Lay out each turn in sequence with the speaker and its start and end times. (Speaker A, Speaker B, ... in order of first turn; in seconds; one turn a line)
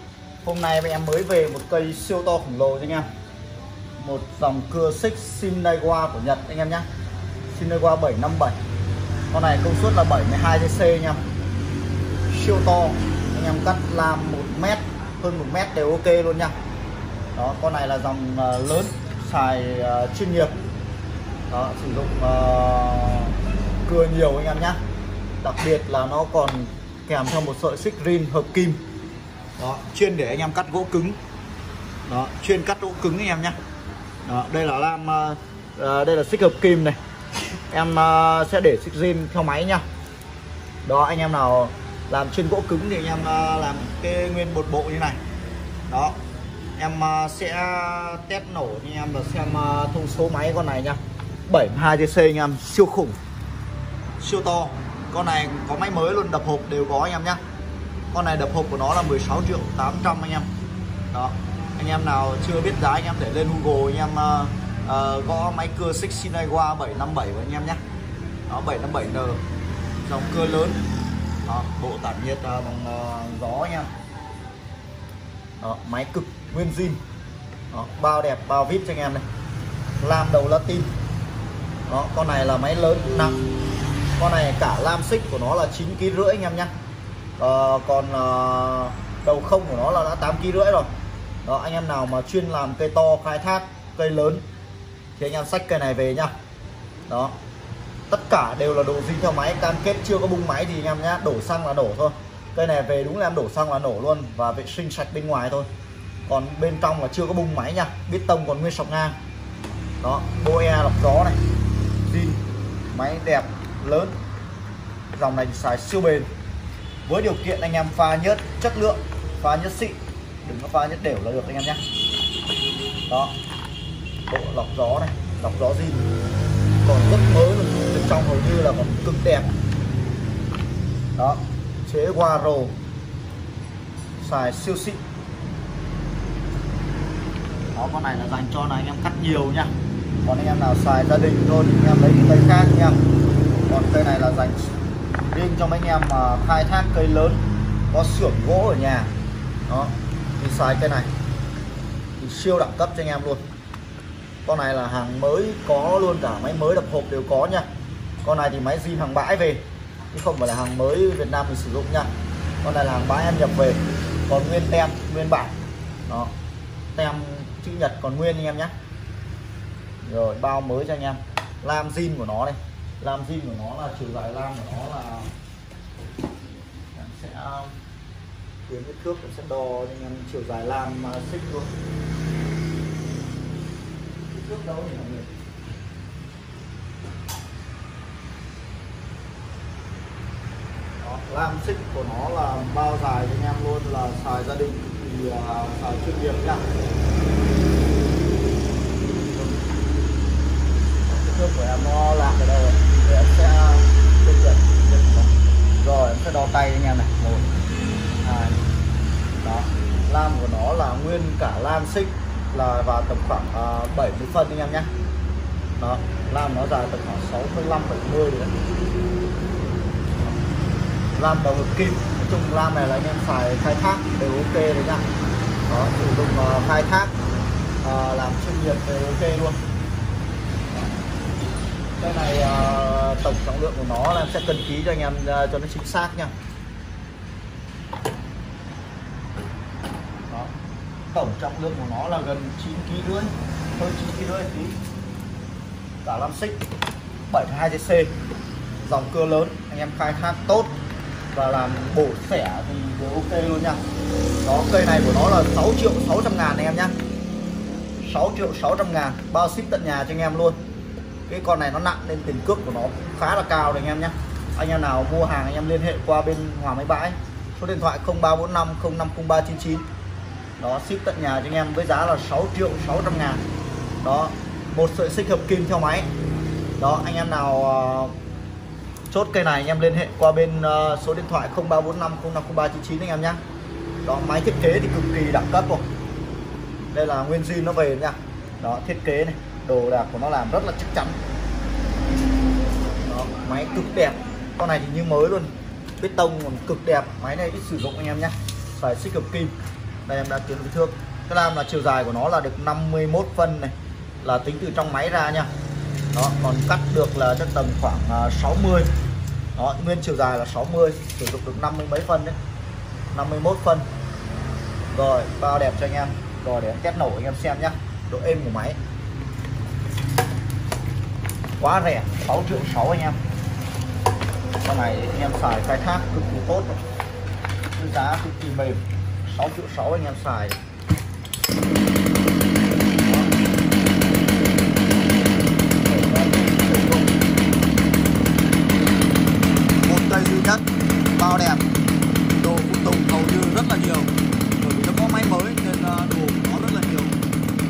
Speaker A: 0.4-3.1
Speaker A: 4.0-6.9
Speaker A: 7.5-8.6
Speaker A: 9.3-11.2
Speaker A: 12.3-16.5
Speaker A: 17.4-20.5
Speaker A: 21.5-24.8
Speaker A: 25.4-28.8
Speaker A: 29.6-31.2
Speaker A: 32.1-33.6
Speaker A: 34.2-37.0
Speaker A: 37.7-39.8
Speaker A: 40.9-45.2
Speaker A: 45.9-46.2
Speaker A: 46.8-53.2
Speaker A: 54.2-57.4
Speaker A: 58.1-60.5
Speaker A: 61.1-67.8
Speaker A: 68.5-69.4
Speaker A: 70.0-70.8
Speaker A: 71.5-73.9
Speaker A: 75.6-77.0
Speaker A: 77.7-79.2
Speaker A: 80.0-80.9
Speaker A: 81.9-83.4
Speaker A: 84.2-86.7
Speaker A: 87.4-90.9
Speaker A: 91.4-94.4
Speaker A: 95.2-96.3
Speaker A: 97.1-97.4
Speaker A: 98.1-105.7
Speaker A: 106.3-109.2
Speaker A: 110.0-111.4
Speaker A: 112.0-112.4
Speaker A: 112.9-114.2
Speaker A: 115.1-116.3
Speaker A: 117.1-121.8
Speaker A: 123.1-123.3
Speaker A: 124.3-126.1
Speaker A: 126.8-129.5
Speaker A: 131.2-132.8
Speaker A: 134.2-135.0
Speaker A: 137.7-139.7
Speaker A: 140.2-143.0
Speaker A: 143.7-144.7
Speaker A: 145.3-149.1
Speaker A: 149.7-151.1
Speaker A: 152.2-153.4
Speaker A: 154.4-157.7
Speaker A: 158.2-162.1
Speaker A: 162.6-166.3
Speaker A: 166.9-168.7
Speaker A: 170.0-175.3
Speaker A: 176.9-177.8
Speaker A: 178.7-181.7
Speaker A: 184.3-185.3
Speaker A: 191.0-196.7
Speaker A: 199.2-199.6
Speaker A: 201.1-207.5
Speaker A: 208.2-208.6
Speaker A: 209.4-214.9
Speaker A: 215.8-218.5
Speaker A: 221.2-225.1
Speaker A: 225.7-227.1
Speaker A: 227.8-229.6
Speaker A: 232.0-236.3
Speaker A: 241.1-244.8
Speaker A: 246.0-246.6
Speaker A: 247.3-248.1
Speaker A: 248.8-250.8
Speaker A: 251.3-253.8
Speaker A: 254.4-256.9
Speaker A: 258.0-260.6
Speaker A: 261.3-269.9
Speaker A: 270.6-273.4
Speaker A: 274.0-276.1
Speaker A: 276.8-278.1
Speaker A: 279.1-283.4
Speaker A: 284.0-285.9
Speaker A: 286.9-291.2
Speaker A: 293.0-299.6
Speaker A: 300.1-305.5
Speaker A: 306.1-308.9
Speaker A: 309.6-312.4
Speaker A: 313.1-313.9
Speaker A: 314.9-318.8
Speaker A: 321.6-323.2
Speaker A: 324.6-326.8
Speaker A: 327.8-330.6
Speaker A: 333.0-333.3
Speaker A: 335.8-337.1
Speaker A: 339.8-341.7
Speaker A: 342.4-347.2